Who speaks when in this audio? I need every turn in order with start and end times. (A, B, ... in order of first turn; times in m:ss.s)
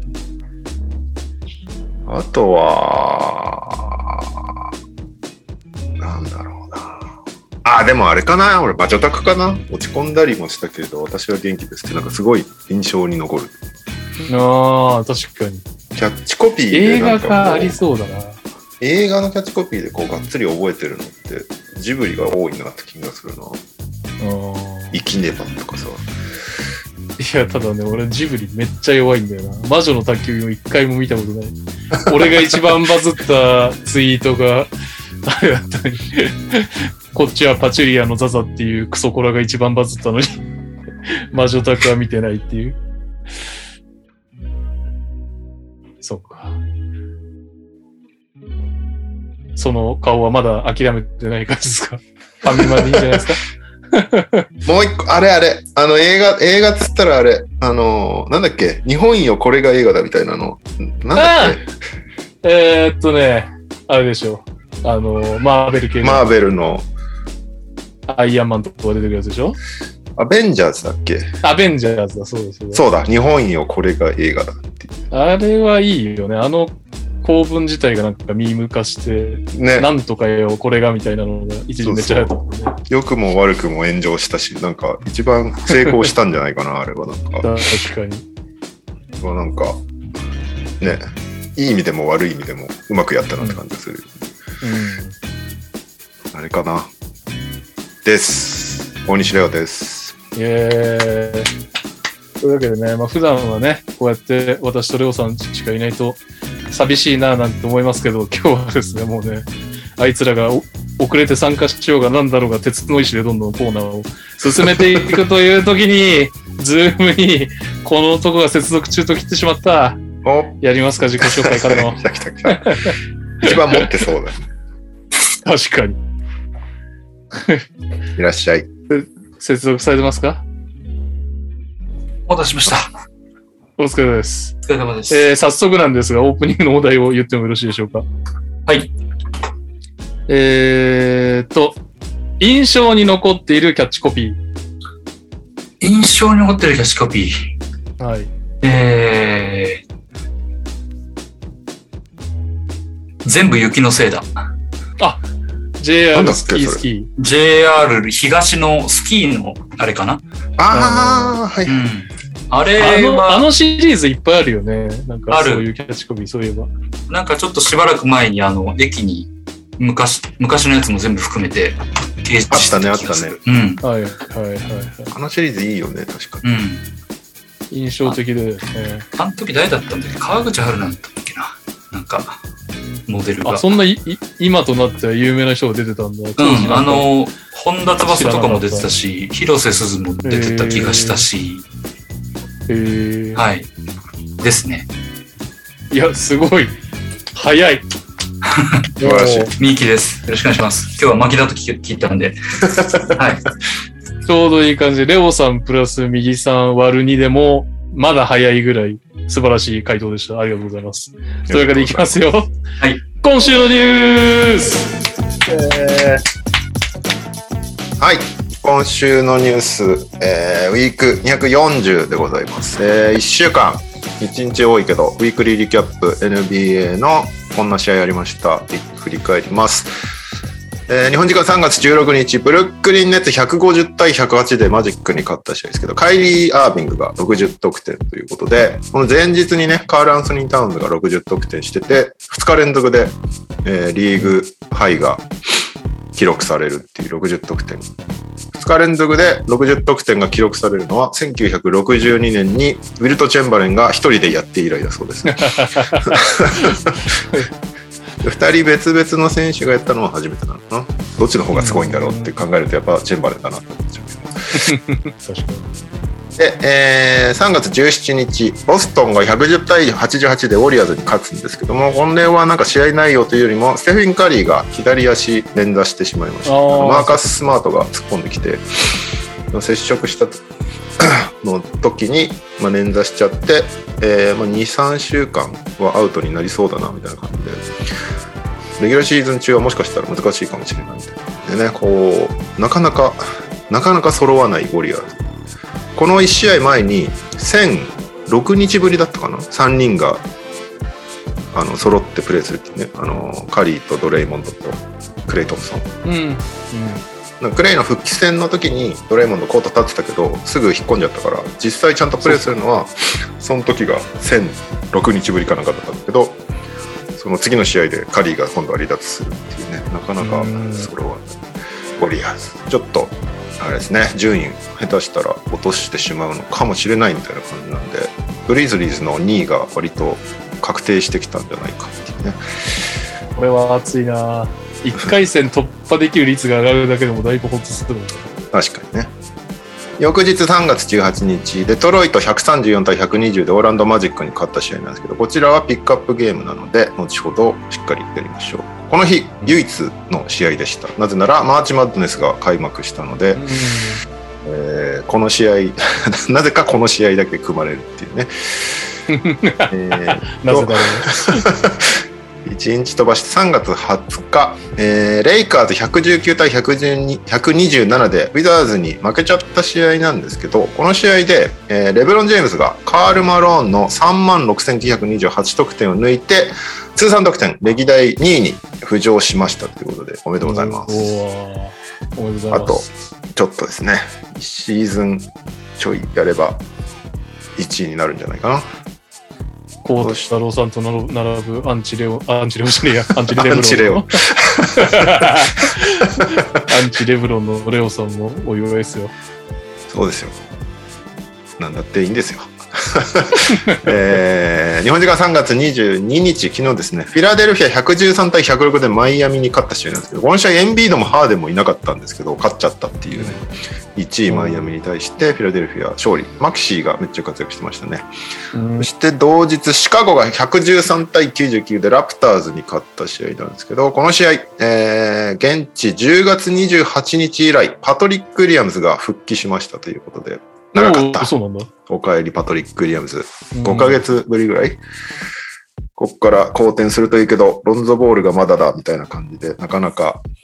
0:02.0-0:04.7 A
0:06.0-0:13.5 A
0:14.2-0:15.6 B
0:16.0-0:17.8 A
0:16.7-0:18.4 B
0:18.8-0:23.6 A
0:24.2-0:25.0 B
0:24.9-0:26.0 A
0:27.2-0:34.7 B
0:32.1-0:32.3 A
0:35.2-0:40.4 B
0:41.1-0:42.8 B
0:46.0-0:46.6 B
0:49.6-0:54.4 B
0:52.4-0:53.2 A
0:54.6-1:01.6 A
1:01.1-1:01.6 B
1:02.4-1:06.2 B
1:06.0-1:06.9 A
1:08.1-1:09.6 B
1:10.2-1:11.3 A
1:11.4-1:12.8 B
1:12.7-1:14.9 A
1:15.1-1:22.8 B
1:19.5-1:19.9 A
1:21.8-1:27.5 A
1:25.8-1:26.0 B
1:27.4-1:28.2 B
1:29.2-1:29.8 A
1:30.8-1:34.1 A
1:34.6-1:35.2 B
1:36.3-1:36.9 A
1:38.0-1:40.1 A
1:40.3-1:41.5 B
1:42.4-2:00.0 B
1:54.6-1:55.2 A
2:00.2-2:00.6 A
2:00.6-2:03.9 B
2:01.2-2:04.5 A
2:05.3-2:06.0 B
2:07.4-2:07.6 B
2:08.2-2:08.7 A
2:08.9-2:10.4 B
2:12.3-2:12.9 C
2:13.8-2:14.6 B
2:14.7-2:15.2 C
2:15.1-2:18.0 B
2:20.3-2:21.8 B
2:22.4-2:24.4 B
2:25.8-2:27.5 C
2:28.0-2:28.3 B
2:28.6-2:29.8 C
2:33.2-2:34.3 C
2:35.8-2:37.1 B
2:36.1-2:36.8 A
2:37.2-2:40.2 C
2:40.6-2:41.9 A
2:40.7-2:41.4 B
2:41.6-2:43.4 C
2:42.8-2:46.7 B
2:45.3-2:45.6 C
2:47.1-2:53.8 C
2:52.5-2:53.4 A
2:53.8-2:55.1 B
2:55.1-2:56.4 A
2:56.4-2:56.8 C
2:57.7-2:59.0 B
2:59.1-3:02.4 C
3:03.1-3:03.6 C
3:03.4-3:07.1 B
3:06.4-3:11.6 C
3:08.0-3:08.8 B
3:10.2-3:11.2 B
3:12.7-3:13.4 B
3:13.4-3:13.7 C
3:14.4-3:14.9 C
3:15.9-3:16.7 B
3:17.3-3:17.8 B
3:19.0-3:19.5 B
3:19.0-3:19.5 A
3:19.6-3:22.4 C
3:22.7-3:23.1 A
3:22.9-3:23.5 C
3:24.2-3:32.5 B
3:31.5-3:32.2 A
3:33.1-3:34.9 B
3:35.4-3:36.2 A
3:38.0-3:49.9 A
3:50.9-4:05.2 A
4:06.1-4:07.9 A
4:08.5-4:17.1 A
4:15.2-4:17.5 B
4:18.2-4:24.7 A
4:21.5-4:22.3 B
4:24.5-4:25.7 B
4:26.4-4:40.4 A
4:36.4-4:37.3 B
4:41.0-4:47.7 A
4:48.8-4:55.2 A
4:55.9-5:00.2 A
5:01.5-5:05.9 A
5:06.0-5:07.1 B
5:07.4-5:16.4 A
5:17.2-5:21.4 A
5:20.2-5:20.9 B
5:22.0-5:32.9 A
5:33.4-5:38.3 B
5:38.5-5:39.1 A
5:40.0-5:53.4 A
5:53.3-5:54.0 B
5:54.4-5:58.9 A
5:59.1-6:01.5 B
5:59.7-6:21.1 A
6:20.4-6:22.9 B
6:22.5-6:26.6 A
6:27.6-6:28.7 A
6:29.8-6:34.1 B
6:30.0-6:30.3 A
6:33.2-6:36.6 A
6:34.7-6:39.1 B
6:39.9-6:40.4 A
6:41.6-6:58.1 A
6:54.3-6:54.7 B
6:58.5-6:58.9 B
6:58.8-7:11.3 A
7:10.7-7:11.7 B
7:11.9-7:14.8 A
7:13.5-7:14.0 B
7:16.0-7:20.2 A